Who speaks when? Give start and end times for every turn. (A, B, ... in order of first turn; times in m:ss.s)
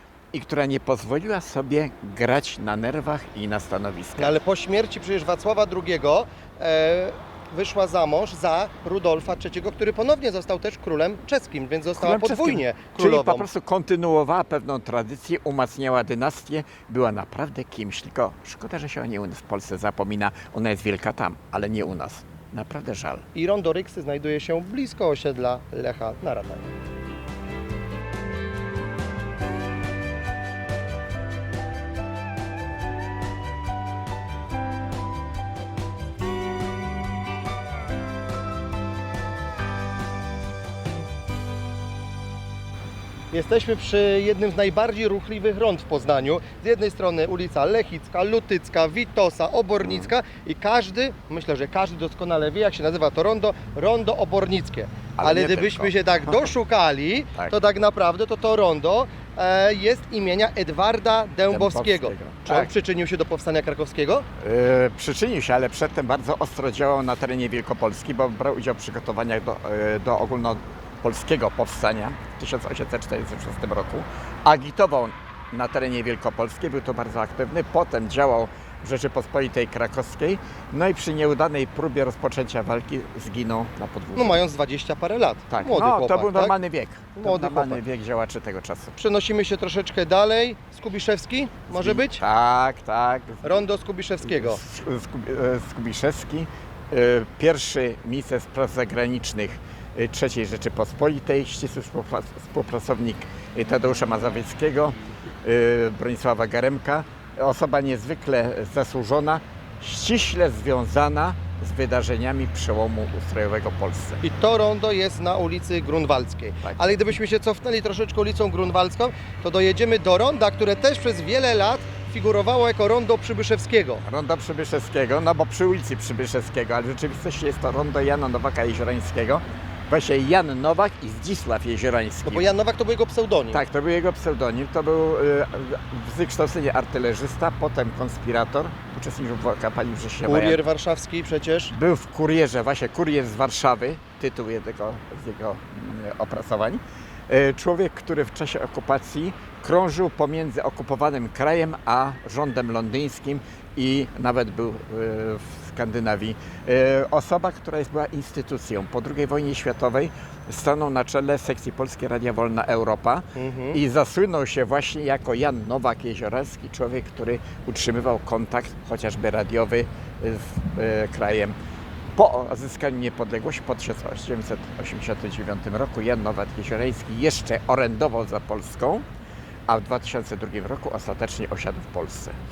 0:00.3-0:04.4 A
0:04.2-0:13.5 B
0:11.9-0:23.2 A
0:23.3-0:26.7 B
0:43.3-1:04.3 B
0:49.8-0:50.1 A
0:55.2-0:56.5 A
1:01.5-1:02.7 A
1:04.4-1:24.4 A
1:24.1-1:26.5 B
1:25.5-1:29.0 A
1:27.2-1:27.8 B
1:29.0-1:32.2 B
1:31.7-1:33.6 A
1:33.4-1:34.6 B
1:34.2-1:54.2 A
1:54.2-2:04.0 B
1:56.6-1:57.0 A
2:04.0-2:12.5 A
2:12.2-2:13.6 B
2:13.5-2:20.6 A
2:20.2-2:21.7 B
2:21.7-2:51.6 A
2:43.4-2:43.8 B
2:52.1-2:59.0 A
2:59.7-3:02.3 A